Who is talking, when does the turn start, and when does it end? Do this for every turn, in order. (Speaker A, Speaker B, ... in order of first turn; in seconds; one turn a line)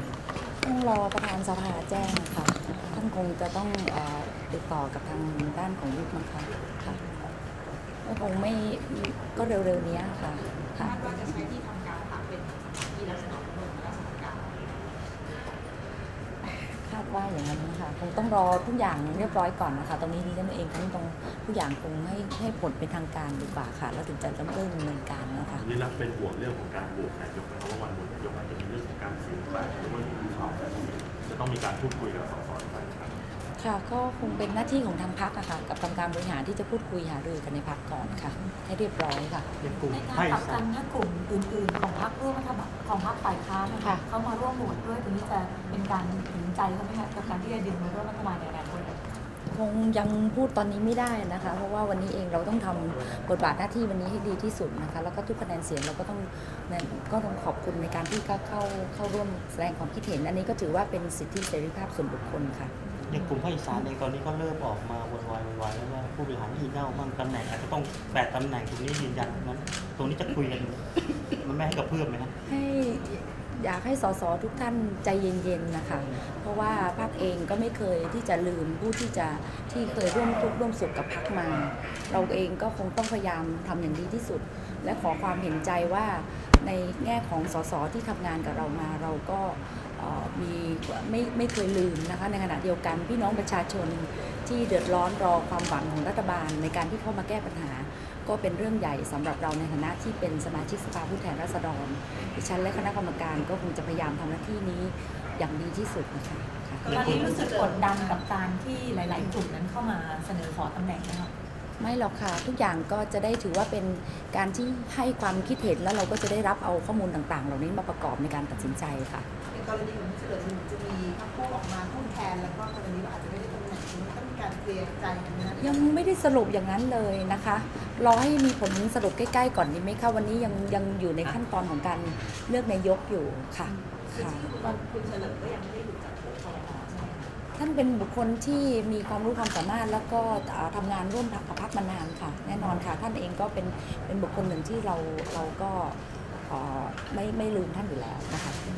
Speaker A: 0.6-7.3
Speaker A: 8.0-11.5
Speaker B: 10.8-15.0
Speaker A: 16.4-25.7
Speaker C: 25.6-33.1
Speaker A: 33.6-39.5
Speaker D: 39.6-40.7
Speaker E: 39.9-49.0
Speaker A: 49.5-62.7
Speaker D: 63.1-70.8
Speaker D: 71.4-72.3
Speaker A: 72.5-106.9
Speaker B: 106.8-108.2
Speaker D: 106.9-107.4
Speaker E: 106.9-111.3
Speaker A: 111.8-119.3
Speaker B: 119.5-125.9
Speaker A: 125.6-134.5
Speaker E: 134.1-137.3
Speaker A: 137.6-148.6